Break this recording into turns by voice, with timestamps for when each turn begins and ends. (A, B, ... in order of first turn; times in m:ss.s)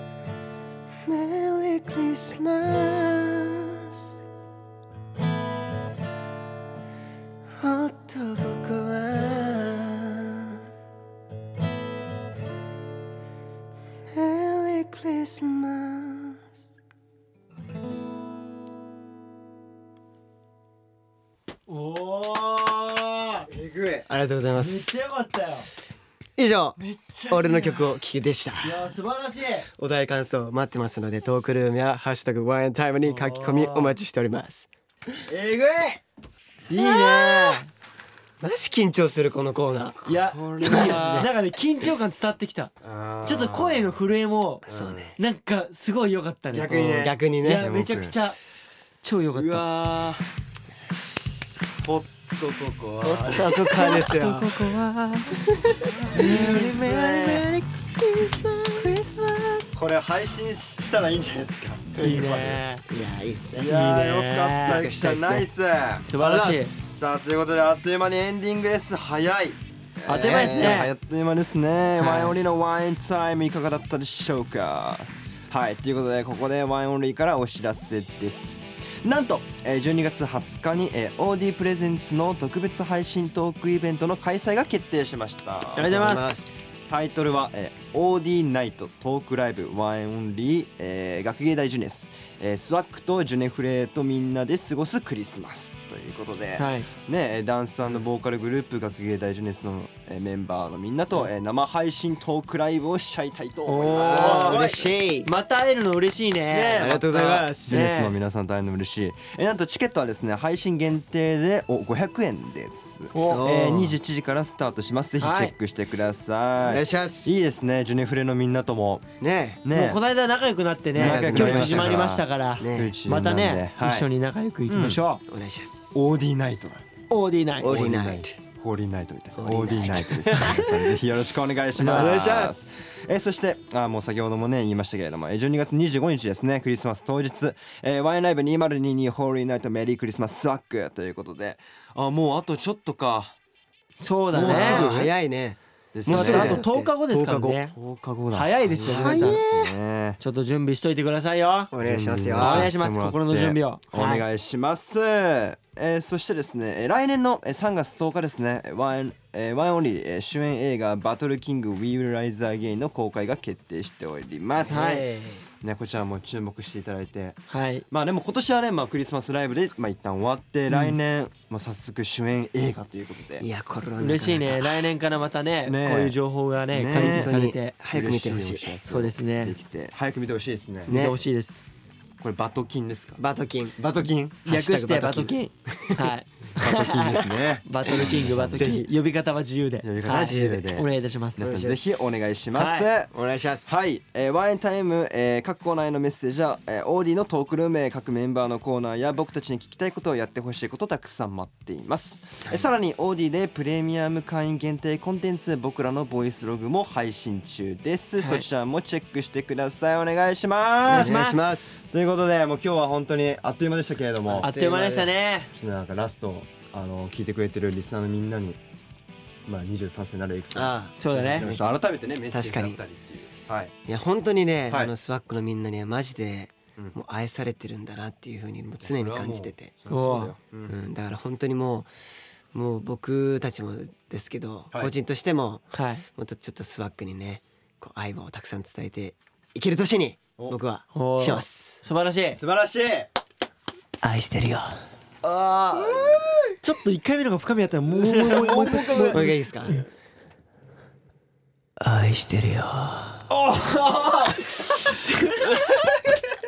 0:01.0-0:04.2 A
0:07.6-0:10.7 A
0:14.1-0:16.5 A
0:21.7-0:23.5 B
0:23.5-0:24.1 C
0:24.1-0:24.9 A
0:24.6-0:25.7 B
0:26.4-0:26.8 A
0:26.8-0:28.0 C
0:27.3-0:28.9 A
0:28.6-0:29.7 B
0:29.7-0:34.7 A
0:33.0-0:33.9 B
0:35.3-0:36.0 C
0:36.7-0:37.7 B
0:36.7-0:37.6 A
0:38.4-0:40.1 A
0:40.1-0:42.7 B
0:40.1-0:41.3 C
0:40.6-0:41.3 A
0:42.8-0:44.0 C
0:43.2-0:48.4 B
0:44.7-0:45.1 C
0:44.7-0:45.2 A
0:46.5-0:48.2 C
0:46.7-0:47.7 A
0:49.0-0:49.6 B
0:49.3-0:50.3 C
0:51.8-0:54.0 C
0:53.0-0:54.8 A
0:53.7-0:55.4 B
0:55.4-0:59.6 A
0:55.9-0:57.4 C
0:56.1-0:57.6 B
0:58.8-0:59.1 B
0:59.7-1:02.6 C
1:02.0-1:02.2 A
1:02.0-1:02.8 B
1:02.9-1:03.8 A
1:03.5-1:26.3 C
1:03.7-1:04.9 B
1:04.7-1:05.5 A
1:06.1-1:06.7 B
1:06.2-1:06.7 A
1:10.1-1:10.9 B
1:10.4-1:10.8 A
1:12.0-1:12.4 B
1:25.8-1:26.3 B
1:25.8-1:26.7 A
1:26.9-1:45.0 C
1:36.6-1:36.9 B
1:43.7-1:44.7 B
1:44.0-1:45.3 A
1:45.2-1:48.2 B
1:46.5-1:59.0 C
1:46.8-1:47.9 A
1:53.1-1:53.4 B
1:53.3-1:54.0 A
1:55.2-1:55.5 B
1:56.6-1:57.4 A
1:59.2-1:59.6 A
1:59.6-2:00.0 C
1:59.7-2:05.2 B
2:01.0-2:04.1 C
2:01.0-2:02.1 A
2:02.6-2:03.0 A
2:04.7-2:05.0 C
2:05.3-2:06.1 A
2:05.9-2:06.8 C
2:07.1-2:07.7 B
2:07.6-2:08.4 A
2:07.6-2:23.4 C
2:09.3-2:11.0 A
2:11.8-2:12.2 B
2:11.8-2:12.7 A
2:24.0-2:24.9 B
2:24.3-2:25.1 C
2:24.4-2:27.6 A
2:25.9-2:26.7 C
2:26.1-2:27.8 B
2:27.7-2:30.2 C
2:28.3-2:29.4 B
2:28.8-2:29.7 A
2:30.2-2:31.7 B
2:31.7-2:32.7 A
2:31.8-2:44.8 C
2:32.4-2:34.2 B
2:44.7-2:45.5 A
2:44.7-2:45.0 B
2:45.6-2:53.5 C
2:47.5-2:47.8 B
2:53.4-2:54.9 A
2:54.0-2:57.7 B
2:55.7-2:56.2 C
2:56.7-2:57.3 C
2:56.9-2:58.8 A
2:57.9-3:01.0 C
2:58.9-2:59.6 B
3:00.9-3:01.2 A
3:00.9-3:01.6 B
3:02.2-3:03.2 C
3:03.2-3:03.8 A
3:03.8-3:04.5 C
3:04.5-3:06.1 A
3:04.5-3:11.4 B
3:06.5-3:08.8 C
3:08.5-3:08.9 A
3:09.8-3:13.1 C
3:10.1-3:10.7 A
3:11.4-3:11.9 A
3:12.5-3:12.9 B
3:13.1-3:13.8 A
3:13.7-3:31.3 C
3:28.2-3:28.4 B
3:30.9-3:31.4 B
3:30.9-3:31.9 A
3:31.9-3:34.5 C
3:34.3-3:35.1 A
3:34.4-3:35.5 B
3:35.5-3:38.6 C
3:39.5-3:43.7 C
3:40.6-3:41.7 A
3:41.0-3:41.5 B
3:42.3-3:42.8 A
3:43.9-3:49.7 A
3:48.8-3:50.8 C
3:49.9-3:50.4 B
3:50.7-3:51.9 A
3:52.5-4:01.8 A
3:55.7-3:56.0 B
4:01.0-4:02.4 B
4:02.4-4:03.1 C
4:04.0-4:04.8 A
4:05.2-4:09.8 B
4:05.8-4:06.6 C
4:07.9-4:09.3 C
4:09.1-4:09.8 A
4:11.8-4:13.2 A
4:13.3-4:15.9 B